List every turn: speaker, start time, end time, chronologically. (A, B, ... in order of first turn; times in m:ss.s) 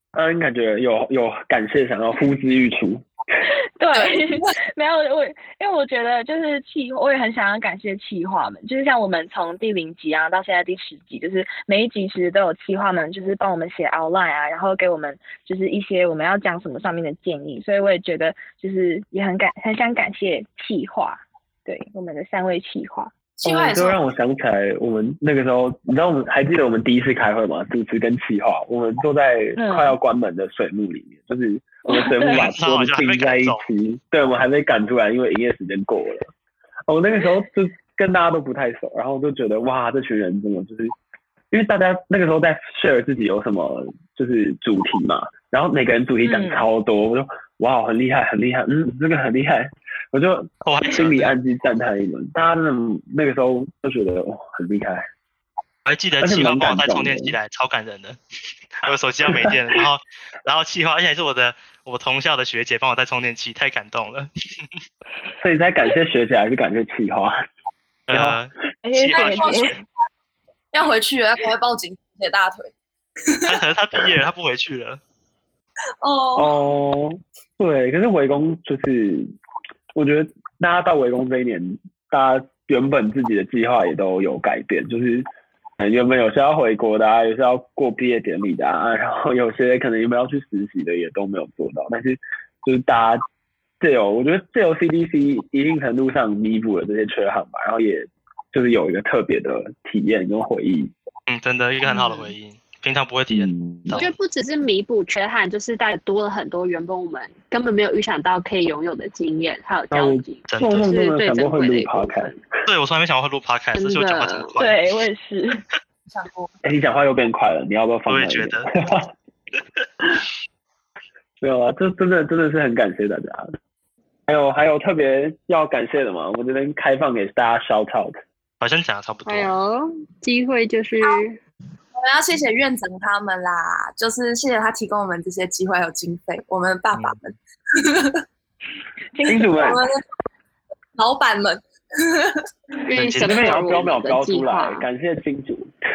0:00.1-0:03.0 A
0:03.5-0:23.1 B
0:03.9-0:04.5 C
0:23.4-0:24.0 C
0:23.4-0:36.3 A
0:29.6-0:30.0 B
0:31.8-0:32.5 B
0:32.2-0:33.6 D
0:36.9-0:40.9 A
0:41.5-0:55.1 A
0:46.2-0:46.6 B
0:50.6-0:51.3 D
0:55.8-0:58.2 D
0:56.2-0:57.4 A
0:58.8-1:04.6 D
0:59.3-0:59.8 A
1:05.4-1:07.4 A
1:08.1-1:08.4 A
1:08.1-1:09.8 D
1:08.8-1:09.7 B
1:09.1-1:09.8 C
1:10.7-1:12.7 C
1:13.2-1:13.6 C
1:13.4-1:15.0 D
1:16.0-1:16.5 C
1:16.4-1:19.3 A
1:19.9-1:25.3 A
1:25.8-1:33.2 A
1:33.8-1:40.9 A
1:41.3-1:44.1 D
1:43.3-1:44.0 A
1:43.9-1:52.4 E
1:49.9-1:52.4 A
1:50.5-1:50.9 D
1:52.6-1:54.8 D
1:53.8-1:54.6 E
1:54.6-1:55.6 B
1:56.1-1:56.5 C
1:56.6-1:59.1 A
1:58.1-1:58.7 D
2:01.4-2:03.5 A
2:04.3-2:08.2 A
2:08.6-2:09.5 D
2:09.2-2:11.4 E
2:11.9-2:18.2 C
2:19.1-2:19.7 B
2:19.2-2:19.8 A
2:19.5-2:20.0 C
2:21.0-2:22.4 C
2:22.8-2:24.8 E
2:22.9-2:23.6 D
2:23.2-2:25.7 A